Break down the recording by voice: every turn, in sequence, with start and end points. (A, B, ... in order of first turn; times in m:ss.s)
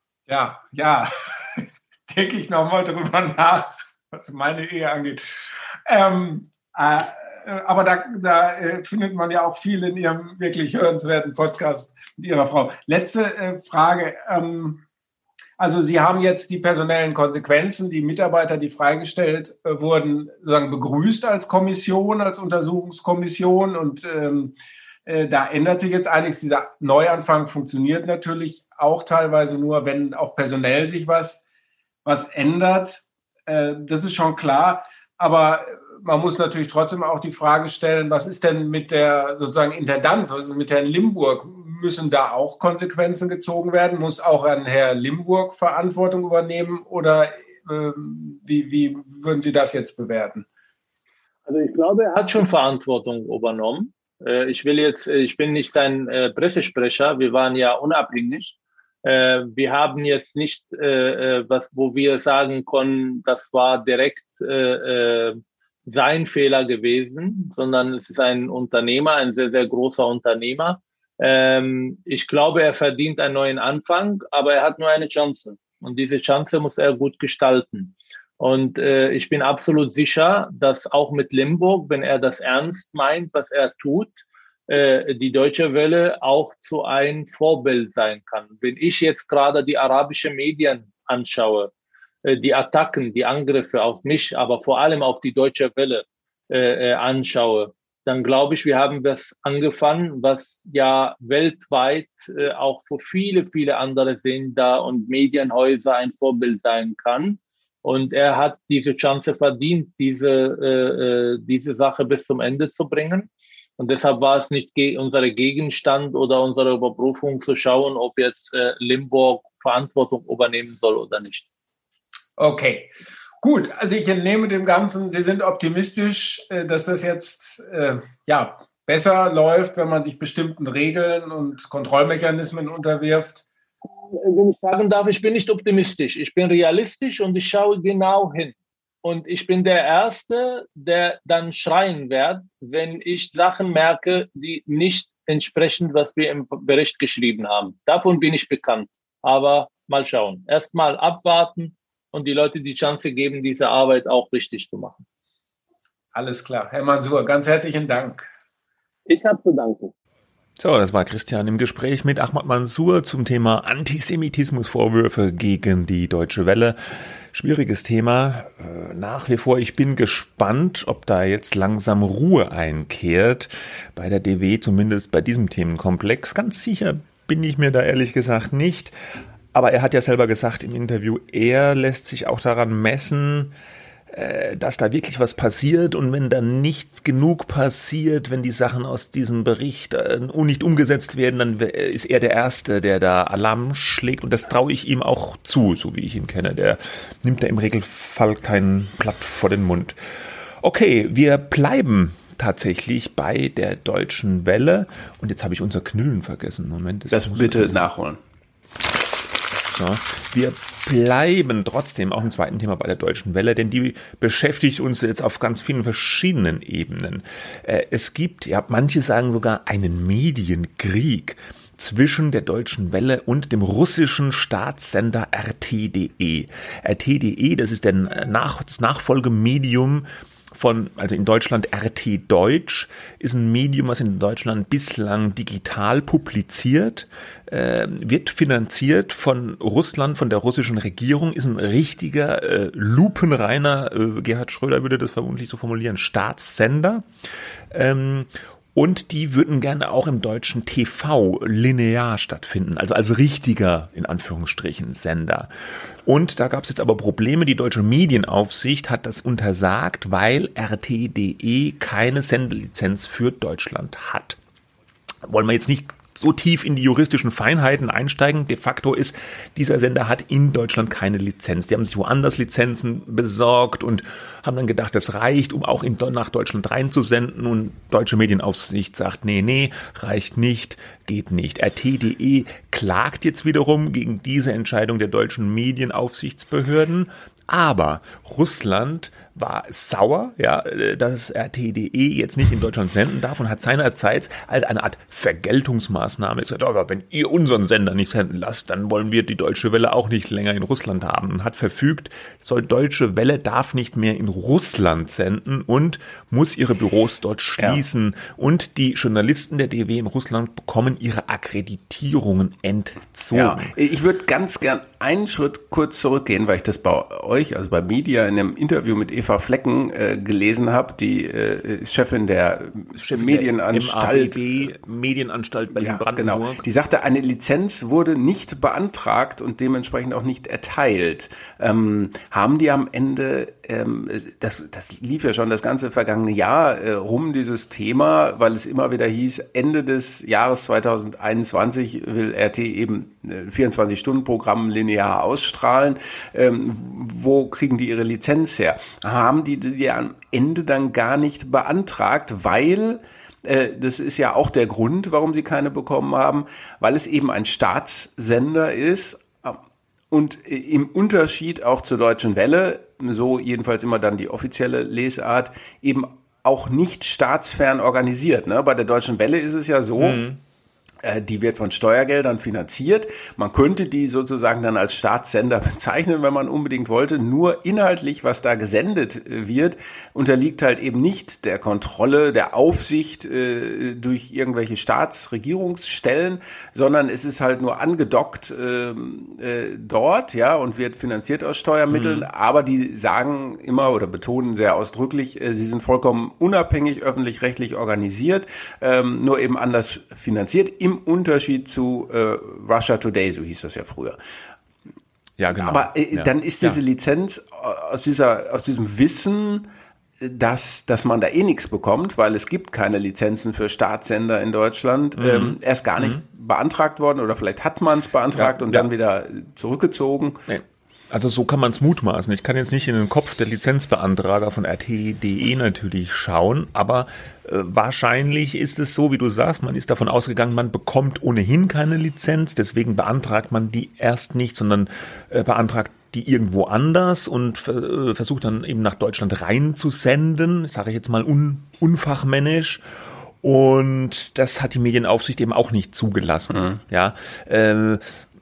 0:00.3-0:14.8 A
0:15.6-0:31.4 A
0:32.0-0:50.4 A
0:51.5-1:24.2 B
1:24.7-1:31.7 B
1:32.2-2:01.4 B
2:02.4-2:13.4 A
2:13.8-2:35.0 B
2:36.1-2:38.3 A
2:39.1-2:39.9 B
2:40.6-2:58.9 C
2:59.5-3:03.5 C
3:04.1-3:20.0 C
3:20.6-3:27.8 C
3:27.1-3:28.2 D
3:29.7-4:07.0 C
4:07.7-4:15.5 C
4:16.0-4:24.4 C
4:25.2-5:13.7 C
5:13.3-5:24.4 D
5:22.9-5:26.6 C
5:25.7-5:59.6 D
6:00.1-6:10.2 D
6:10.0-6:10.4 C
6:11.0-6:44.2 D
6:31.9-6:32.3 C
6:45.4-6:46.8 C
6:45.6-6:49.7 D
6:50.2-7:00.4 D
6:55.2-6:56.2 C
6:58.4-6:58.9 C
7:00.5-7:22.8 C
7:23.4-7:28.0 C